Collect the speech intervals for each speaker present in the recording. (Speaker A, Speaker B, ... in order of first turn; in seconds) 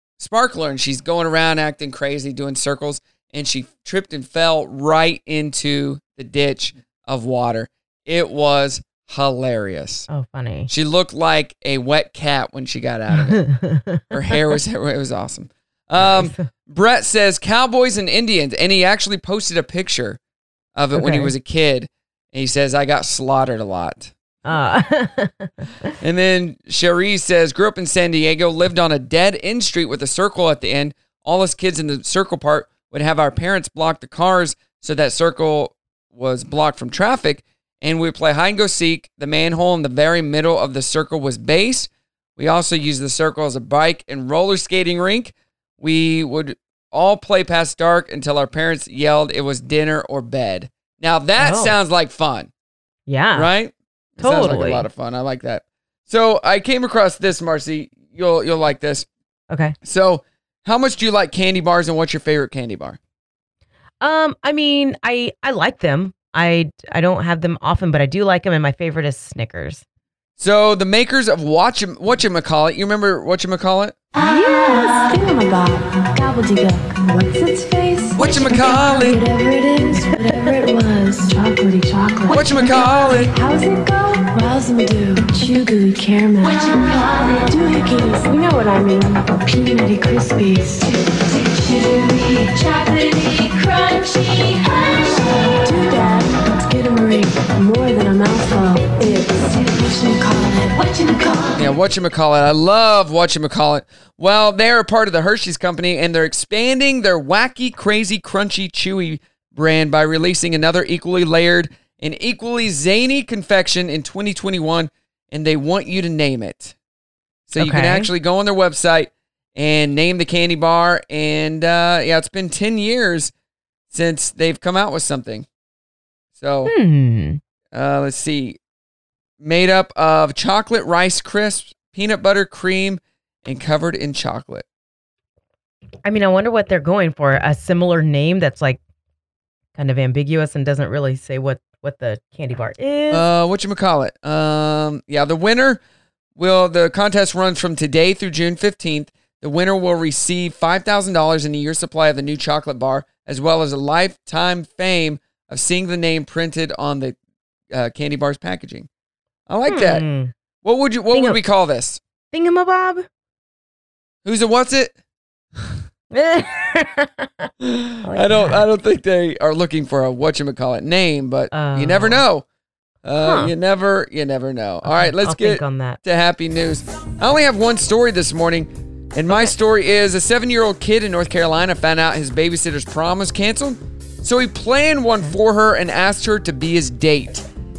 Speaker A: 0.2-10.1, 10.7-13.4, 14.1-20.2, 20.8-24.1, 26.0-52.5, 53.4-59.1, 59.8-63.0, 70.4-73.9, 78.2-79.2, 82.3-83.3, 101.5-116.8, 117.5-123.3, 123.9-125.5, 126.4-126.7, 127.7-128.6, 129.4-134.6, 143.1-145.8, 146.4-157.2, 157.7-158.9, 159.5-160.0, 160.6-162.0, 164.2-164.9, 167.6-172.4, 173.0-187.4
Speaker B: 10.1-10.7, 13.1-14.3, 16.0-16.5, 20.9-21.3, 24.5-25.9, 51.4-51.7, 53.1-53.5, 54.2-54.9, 64.0-69.8, 117.6-118.1, 126.7-127.4, 136.1-138.8, 139.8-143.2, 159.7-160.3, 161.1-161.4, 162.3-163.1, 166.1-167.5, 168.0-168.7, 171.5-172.2, 173.2-173.5, 174.8-176.0, 179.3-179.5
Speaker C: 74.2-101.7